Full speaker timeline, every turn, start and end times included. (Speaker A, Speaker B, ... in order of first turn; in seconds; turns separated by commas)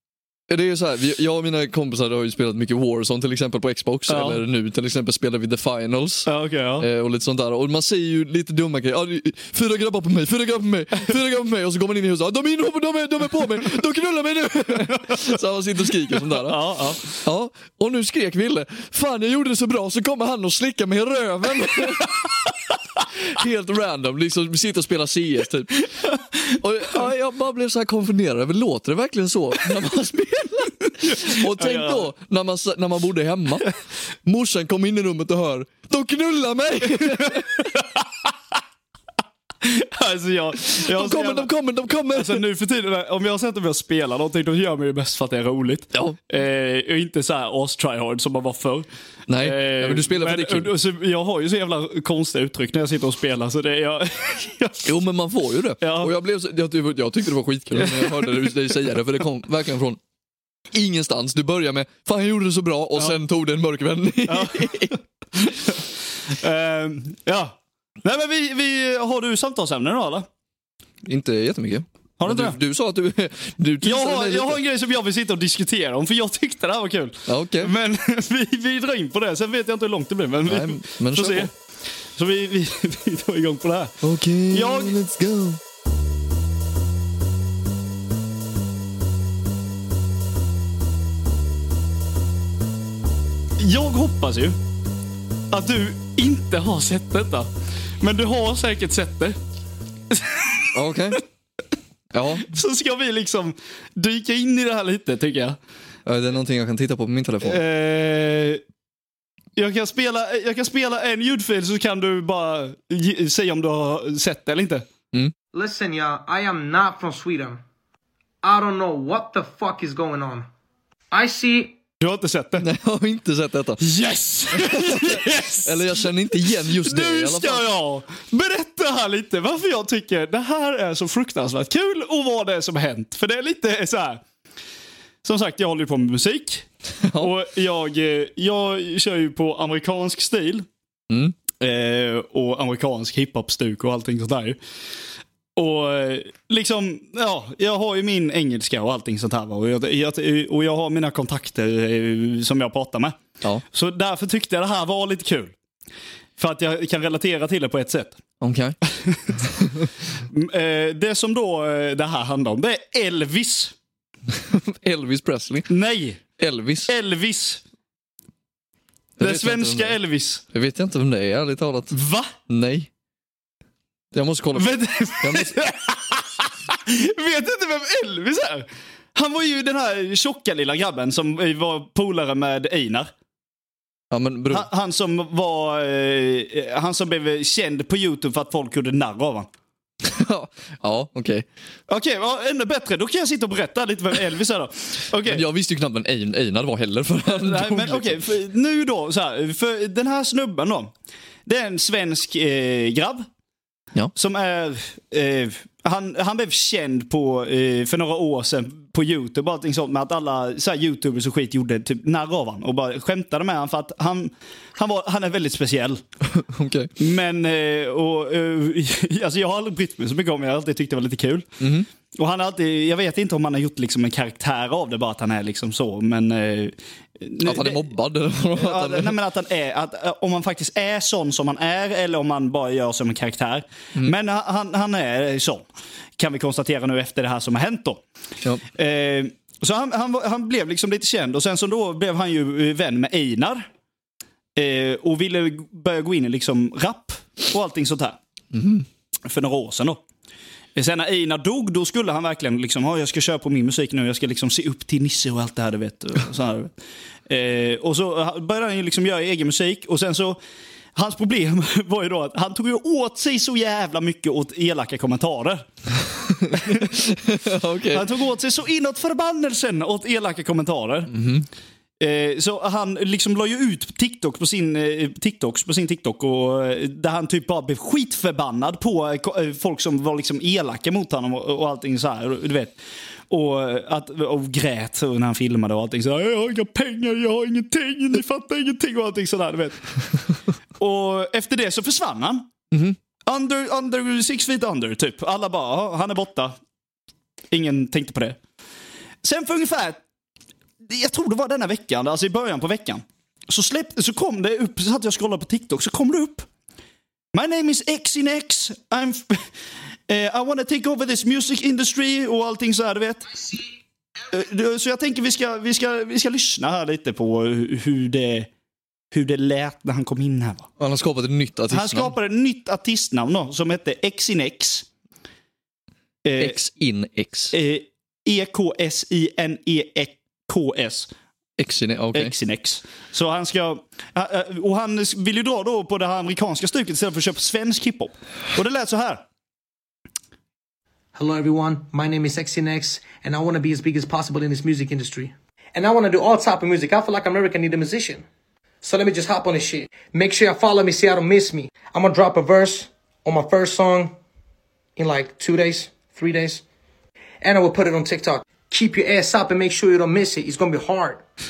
Speaker A: 0.5-22.4, Speaker B: 4.1-4.4, Speaker B: 6.2-6.9, Speaker B: 14.9-15.2, Speaker B: 16.2-17.2, Speaker A: 23.2-37.7, Speaker B: 31.0-32.1, Speaker B: 37.2-38.2, Speaker B: 39.6-41.5, Speaker A: 40.7-42.4, Speaker B: 42.1-54.9, Speaker A: 45.9-46.2, Speaker A: 49.3-50.7, Speaker A: 54.8-60.0, Speaker B: 55.8-56.1, Speaker B: 57.8-58.5, Speaker A: 60.7-65.0, Speaker B: 62.9-63.2, Speaker B: 64.2-70.3, Speaker A: 71.0-74.6, Speaker B: 72.2-72.6, Speaker B: 73.8-81.5, Speaker A: 77.3-77.7, Speaker A: 80.5-81.5, Speaker B: 82.1-84.0, Speaker A: 84.0-85.6, Speaker B: 84.5-85.0, Speaker B: 93.6-94.6, Speaker B: 95.5-97.5, Speaker B: 98.0-99.4, Speaker B: 100.1-100.7, Speaker A: 100.7-101.2, Speaker A: 102.1-102.5, Speaker B: 102.4-105.6, Speaker A: 106.0-107.6, Speaker B: 107.4-108.6, Speaker B: 109.5-114.9, Speaker C: 115.5-117.6, Speaker C: 118.4-120.5, Speaker C: 121.1-121.8, Speaker B: 122.0-122.7, Speaker A: 122.6-123.8, Speaker B: 123.8-134.2, Speaker A: 124.5-127.6, Speaker B: 135.2-140.7, Speaker A: 137.0-137.3, Speaker A: 141.1-141.3, Speaker B: 141.6-144.6, Speaker B: 145.6-153.2, Speaker B: 153.7-155.5, Speaker B: 156.4-158.2, Speaker A: 158.4-158.8, Speaker B: 159.0-159.3, Speaker A: 159.6-159.8, Speaker B: 160.3-163.7, Speaker A: 164.3-165.7, Speaker B: 165.7-166.2, Speaker A: 166.4-166.9, Speaker B: 166.9-167.6, Speaker B: 169.2-170.4, Speaker A: 169.2-170.0, Speaker A: 170.5-171.9, Speaker B: 171.9-172.3, Speaker A: 172.5-172.9, Speaker A: 174.1-175.6, Speaker B: 174.5-183.1, Speaker A: 184.1-184.7, Speaker B: 184.5-189.5, Speaker A: 190.0-191.4, Speaker B: 191.9-195.4, Speaker A: 195.2-198.2, Speaker B: 197.3-200.9, Speaker B: 201.4-203.3, Speaker B: 204.1-216.0, Speaker A: 216.3-216.9, Speaker B: 217.0-221.5, Speaker A: 221.6-221.9, Speaker B: 222.1-227.9, Speaker A: 227.4-229.2, Speaker B: 228.5-235.7, Speaker B: 236.2-238.0, Speaker B: 238.7-243.7, Speaker B: 244.5-248.2, Speaker A: 248.5-248.8, Speaker B: 249.2-250.0, Speaker B: 250.7-256.7, Speaker B: 257.3-260.4, Speaker B: 260.9-265.7, Speaker A: 266.2-268.1, Speaker B: 266.5-267.0, Speaker B: 267.9-271.1, Speaker A: 271.1-271.5, Speaker B: 272.0-282.8, Speaker B: 283.3-289.9, Speaker B: 290.8-292.5, Speaker B: 293.3-296.5, Speaker B: 297.5-298.4, Speaker B: 299.2-300.0, Speaker B: 300.8-306.5, Speaker B: 307.3-309.5, Speaker B: 310.1-313.5, Speaker B: 314.3-318.5, Speaker B: 319.1-320.7, Speaker A: 320.8-322.1, Speaker B: 321.7-324.9, Speaker B: 326.2-326.6, Speaker A: 326.4-327.5, Speaker B: 327.5-331.1, Speaker A: 331.6-332.3, Speaker B: 332.1-339.2, Speaker C: 341.1-348.2, Speaker C: 348.8-354.1, Speaker C: 354.9-356.6, Speaker C: 357.4-361.2